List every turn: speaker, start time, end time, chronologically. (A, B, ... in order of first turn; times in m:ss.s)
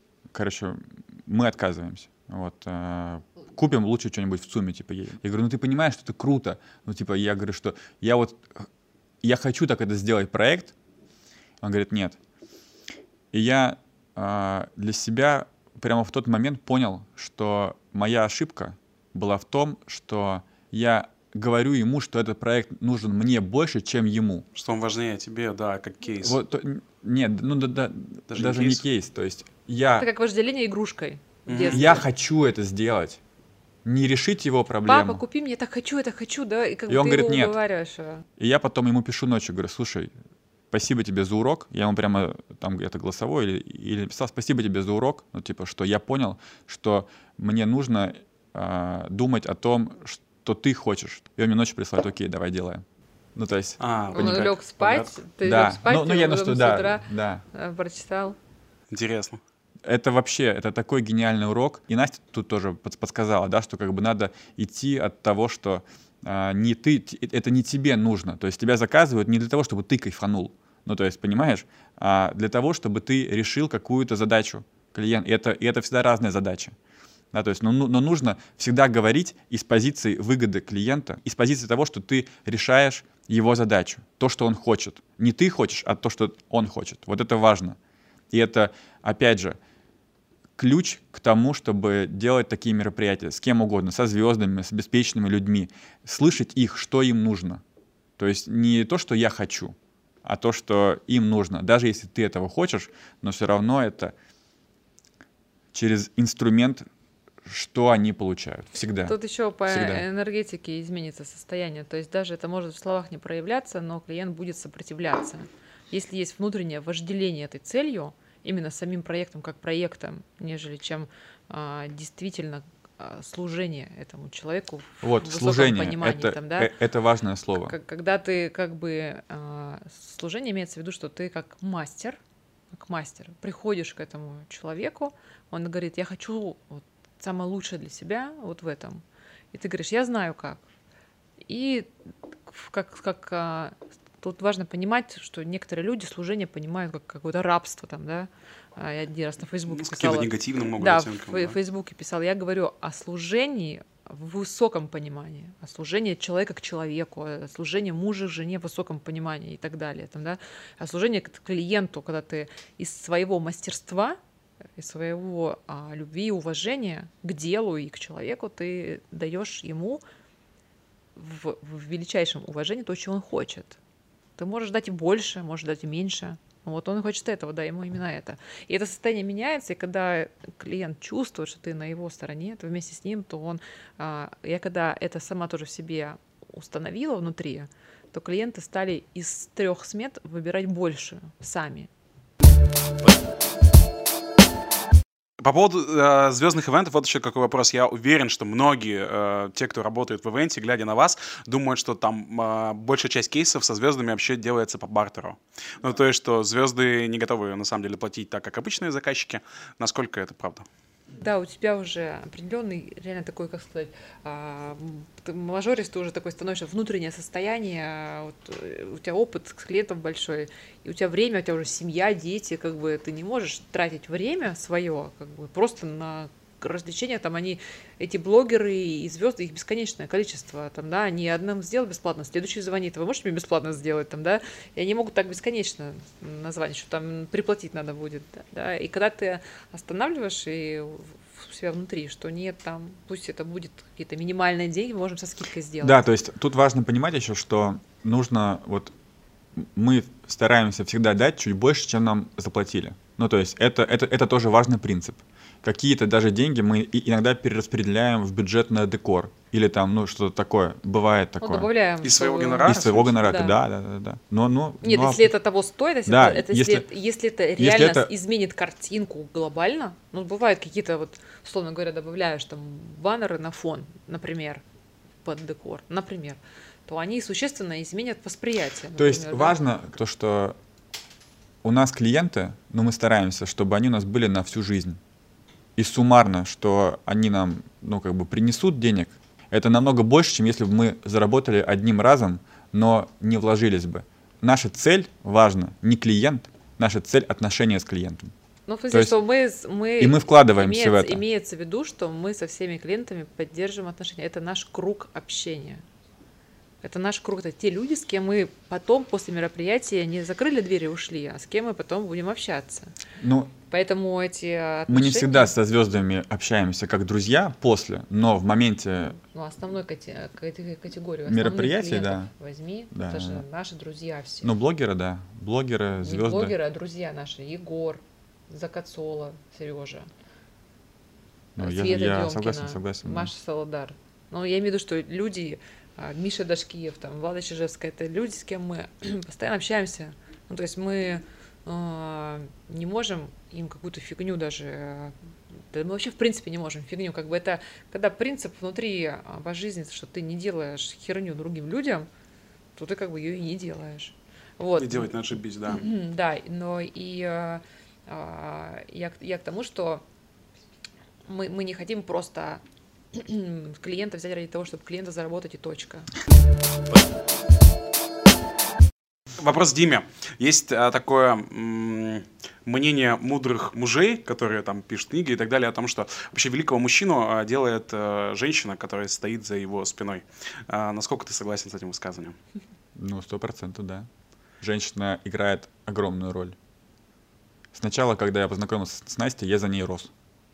0:00.3-0:08.7 A
0:09.2-0:10.8 A
0:11.6-0:12.2 A
0:13.3-0:24.5 A
0:24.6-0:26.4 B
0:26.2-0:30.1 A
0:28.3-0:28.8 B
0:30.0-0:32.0 C
0:31.5-0:32.0 B
0:31.7-0:33.2 A
0:33.8-0:35.2 A
0:34.9-0:38.2 C
0:36.9-0:37.6 A
0:38.4-0:40.1 A
0:40.7-0:52.8 A
0:53.4-0:54.5 A
0:53.8-0:55.1 B
0:54.2-0:58.4 C
0:55.4-0:57.4 A
0:58.9-0:59.4 B
0:59.8-1:16.8 A
1:17.3-1:27.8 A
1:28.3-1:29.6 A
1:30.6-1:37.6 A
1:38.2-1:44.1 A
1:45.7-1:46.9 A
1:47.4-1:50.0 A
1:49.1-2:06.7 C
2:05.0-2:07.8 A
2:07.6-2:12.2 C
2:12.7-2:20.6 C
2:21.5-2:21.9 C
2:22.5-2:44.2 C
2:29.7-2:31.6 B
2:44.8-2:50.0 C
2:51.2-2:53.8 C
2:54.4-3:11.9 C
3:15.4-3:30.7 B
3:31.2-4:06.0 C
4:05.8-4:08.9 A
4:09.6-4:21.7 A
4:21.4-4:23.6 C
4:22.0-4:23.2 B
4:22.7-4:25.3 A
4:24.8-4:34.6 C
4:26.1-4:26.9 A
4:27.6-4:28.1 A
4:35.2-4:39.6 C
4:39.0-4:40.6 A
4:41.6-4:45.0 A
4:45.8-4:58.3 A
4:58.7-5:05.8 C
4:58.9-4:59.2 A
5:00.0-5:01.2 A
5:06.8-5:12.9 C
5:13.2-5:13.5 A
5:13.7-5:15.5 C
5:14.9-5:19.2 A
5:19.3-5:24.5 C
5:21.3-5:22.3 A
5:22.9-5:23.4 A
5:24.4-5:26.6 A
5:26.0-5:30.1 C
5:31.6-5:33.3 A
5:31.6-5:45.2 C
5:45.7-5:52.1 C
5:52.8-5:55.1 C
5:54.8-5:55.9 B
5:55.7-6:00.0 C
6:01.3-6:02.6 C
6:03.1-6:06.1 C
6:09.4-6:22.4 B
6:23.0-6:24.1 A
6:24.6-6:26.6 A
6:27.7-6:30.1 A